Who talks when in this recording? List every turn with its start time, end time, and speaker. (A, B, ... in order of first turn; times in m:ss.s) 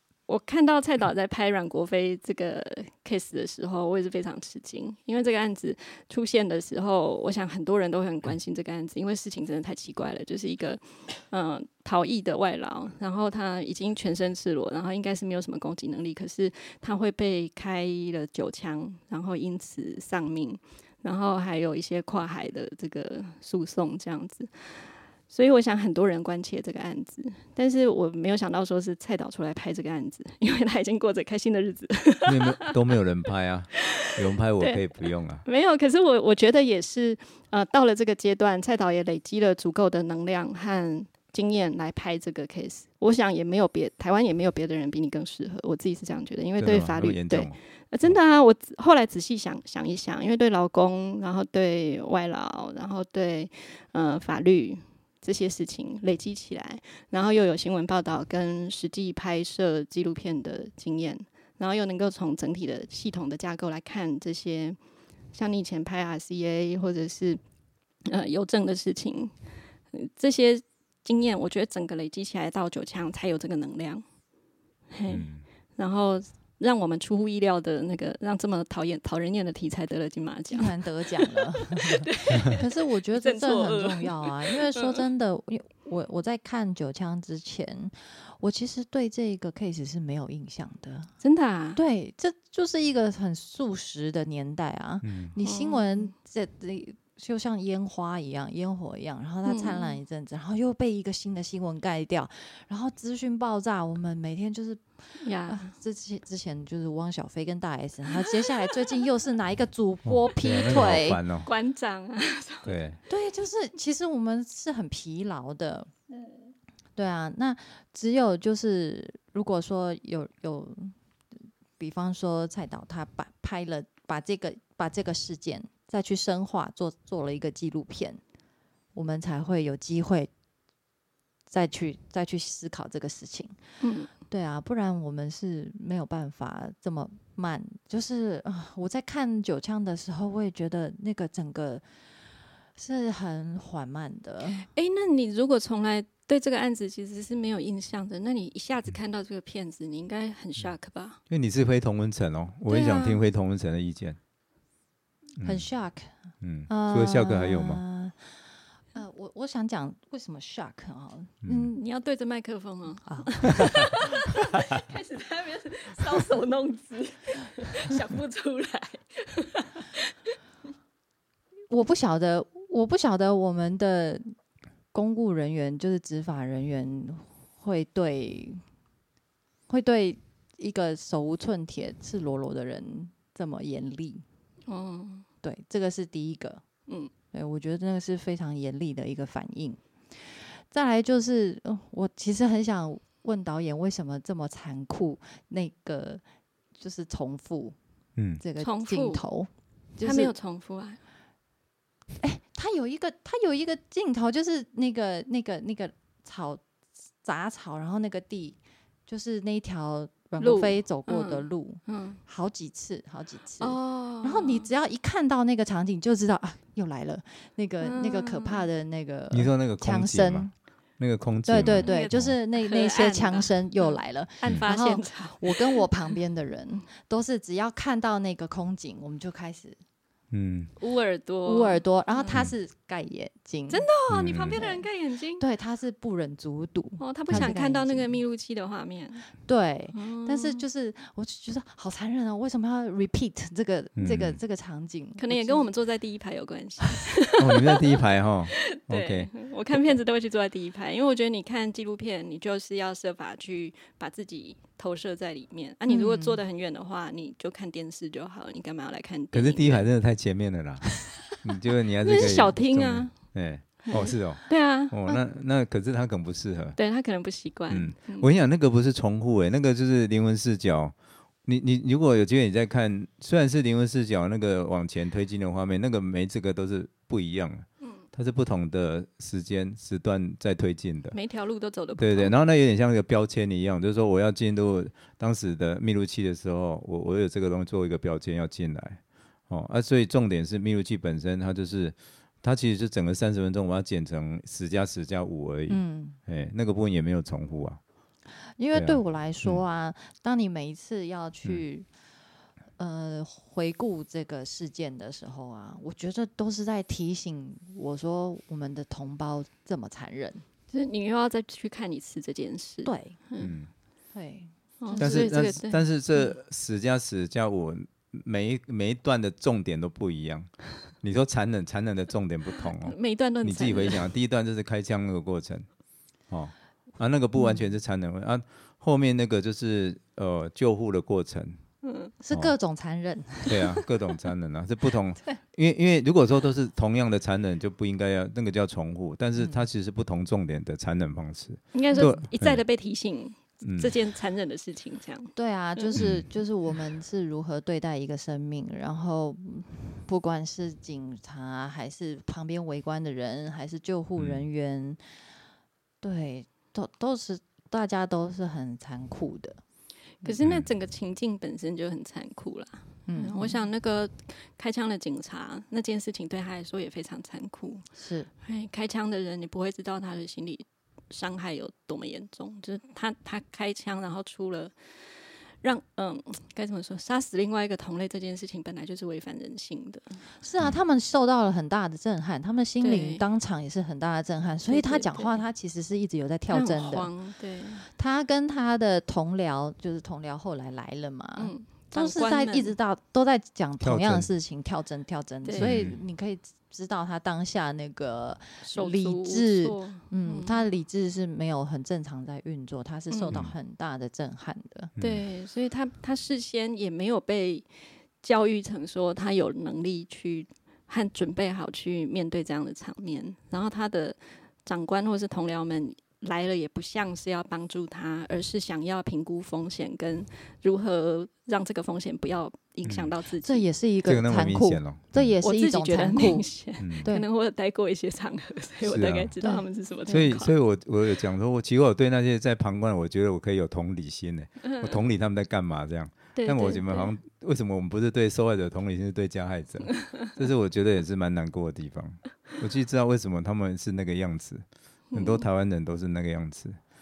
0:00.3-0:32.7 A
0:32.2-0:35.4 B
0:35.4-1:04.8 A
0:46.6-0:48.1 B
1:05.3-1:07.4 A
1:08.0-1:09.4 A
1:09.9-1:14.0 A
1:14.9-1:25.0 A
1:15.1-1:15.4 B
1:20.5-1:31.1 C
1:31.2-1:31.8 A
1:31.7-1:51.2 C
1:35.0-1:35.3 B
1:35.4-1:36.1 A
1:39.4-1:40.0 A
1:45.2-1:45.7 A
1:50.0-1:51.5 B
1:51.4-1:52.8 A
1:52.6-1:53.0 B
1:53.1-1:55.9 C
1:57.0-2:01.0 C
2:01.8-2:08.2 C
2:08.9-2:10.3 C
2:11.5-2:13.6 C
2:13.8-2:14.1 A
2:14.3-2:21.8 C
2:22.7-2:24.7 C
2:24.6-2:31.2 A
2:31.3-2:34.2 B
2:32.7-2:33.2 A
2:35.4-2:35.7 B
2:35.4-2:36.1 C
2:36.4-2:37.8 B
2:36.7-2:38.4 C
2:38.9-2:41.5 C
2:41.4-2:41.7 B
2:41.4-2:50.0 A
2:43.0-2:43.8 C
2:51.7-2:54.3 C
2:54.9-2:58.6 C
2:59.7-3:04.2 C
3:04.6-3:05.2 A
3:05.4-3:06.6 C
3:07.3-3:16.2 C
3:16.7-3:17.8 C
3:18.2-3:18.4 B
3:18.4-3:20.3 C
3:18.6-3:19.2 A
3:20.0-3:21.0 A
3:22.2-3:26.6 C
3:27.2-3:40.6 C
3:30.4-3:32.2 A
3:33.6-3:34.7 A
3:37.8-3:38.6 A
3:39.3-3:42.4 B
3:41.4-3:49.8 C
3:41.6-3:45.8 A
3:50.3-3:50.7 B
3:50.8-3:52.4 A
3:51.4-3:58.2 C
3:53.7-3:55.4 A
3:54.1-3:54.6 B
3:57.0-3:59.3 A
3:59.4-4:05.7 C
3:59.9-4:00.6 A
4:04.0-4:04.4 B
4:05.2-4:07.8 A
4:07.4-4:09.3 B
4:08.7-4:19.9 A
4:15.9-4:16.4 C
4:19.3-4:26.8 B
4:22.0-4:25.2 A
4:26.8-4:28.3 A
4:27.7-4:30.9 B
4:31.4-4:41.2 B
4:41.1-4:42.4 A
4:42.0-4:57.8 B
4:55.7-4:56.2 C
4:58.4-5:01.9 C
4:58.7-4:59.6 B
5:02.8-5:10.4 C
5:10.7-5:13.5 A
5:12.8-5:13.2 C
5:13.4-5:13.7 B
5:14.1-5:15.6 C
5:14.8-5:16.3 A
5:15.0-5:25.7 B
5:22.8-5:24.1 A
5:26.3-5:31.6 B
5:27.4-5:27.6 C
5:31.8-5:32.1 A
5:32.2-5:33.8 C
5:33.4-5:42.6 B
5:39.4-5:39.6 C
5:41.7-5:46.0 A
5:43.6-5:43.9 B
5:45.3-5:55.0 C
5:46.0-5:46.3 B
5:54.2-5:54.4 B
5:56.0-5:59.6 C
6:00.2-6:07.8 A
6:00.4-6:00.7 B
6:03.0-6:03.6 C
6:07.9-6:08.3 C
6:08.4-6:20.2 A
6:20.4-6:27.1 C
6:22.8-6:23.2 A
6:24.7-6:25.4 A
6:26.5-6:27.9 A
6:27.9-6:44.9 C
6:31.4-6:32.7 A
6:33.8-6:34.3 B
6:35.4-6:35.9 A
6:35.6-6:36.0 B
6:38.6-6:40.6 A
6:43.1-6:43.4 A
6:45.0-6:45.2 B
6:45.0-7:03.6 A
7:02.8-7:03.1 B
7:03.4-7:07.3 C
7:04.0-7:05.4 B
7:05.4-7:10.5 A
7:06.8-7:07.1 B
7:08.8-7:09.3 B
7:09.4-7:10.3 C
7:10.1-7:26.8 B
7:14.6-7:14.9 A
7:16.3-7:17.1 A
7:25.1-7:25.4 A